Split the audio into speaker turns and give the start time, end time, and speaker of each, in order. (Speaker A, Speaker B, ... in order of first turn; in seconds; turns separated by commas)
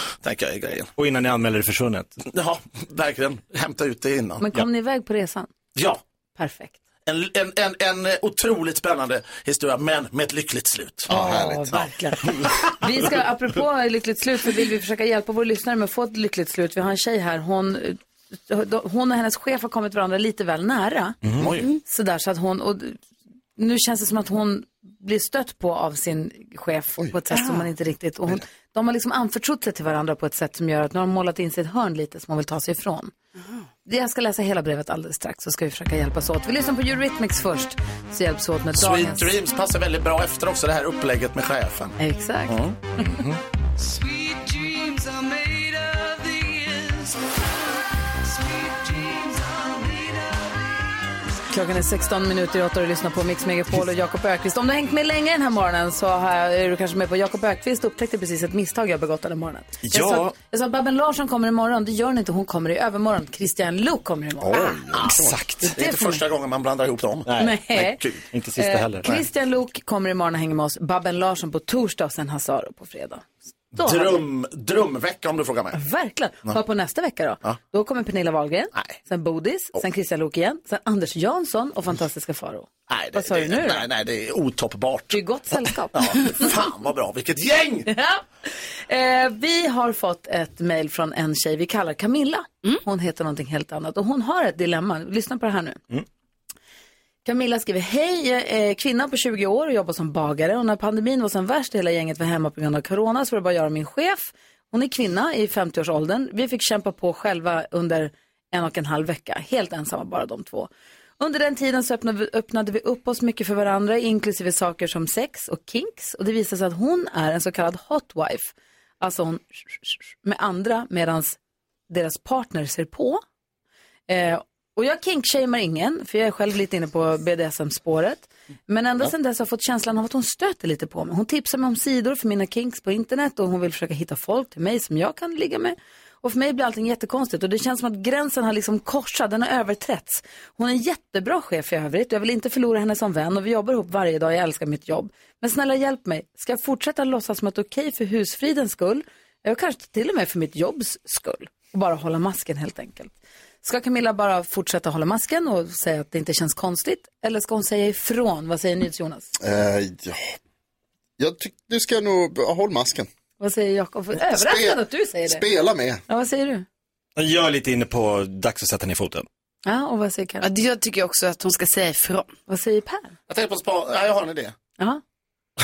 Speaker A: 0.2-0.9, Speaker B: 1.0-2.1, Speaker A: 2.2-4.5, Speaker C: 4.4-5.5, Speaker A: 5.8-6.0, Speaker C: 6.4-6.7, Speaker A: 7.1-11.1, Speaker C: 11.1-21.2, Speaker D: 11.1-11.7, Speaker A: 11.7-12.7, Speaker B: 21.2-21.5, Speaker A: 21.4-21.7, Speaker C: 21.8-23.0, Speaker C: 23.6-33.1, Speaker E: 27.3-27.6, Speaker C: 33.9-39.3, Speaker A: 38.7-42.8, Speaker C: 42.0-43.1, Speaker B: 43.0-43.4, Speaker F: 43.8-51.1, Speaker C: 51.5-65.0, Speaker B: 59.8-60.3, Speaker D: 64.4-65.4, Speaker B: 65.0-65.7, Speaker C: 65.6-66.2, Speaker A: 65.7-68.2, Speaker B: 67.3-67.7, Speaker C: 67.3-74.2, Speaker B: 68.2-69.2, Speaker A: 73.7-75.8, Speaker C: 75.7-83.9, Speaker A: 82.9-85.2, Speaker C: 85.1-86.5, Speaker A: 85.9-87.9, Speaker C: 87.8-95.8, Speaker C: 97.2-121.4, Speaker C: 121.9-123.2, Speaker C: 124.1-159.3, Speaker D: 159.4-160.3, Speaker D: 161.2-163.1, Speaker C: 163.4-165.4, Speaker D: 164.2-166.0, Speaker C: 166.1-166.7, Speaker B: 167.2-169.2, Speaker C: 169.7-170.5, Speaker E: 170.4-172.3, Speaker C: 172.5-173.1, Speaker A: 173.3-174.5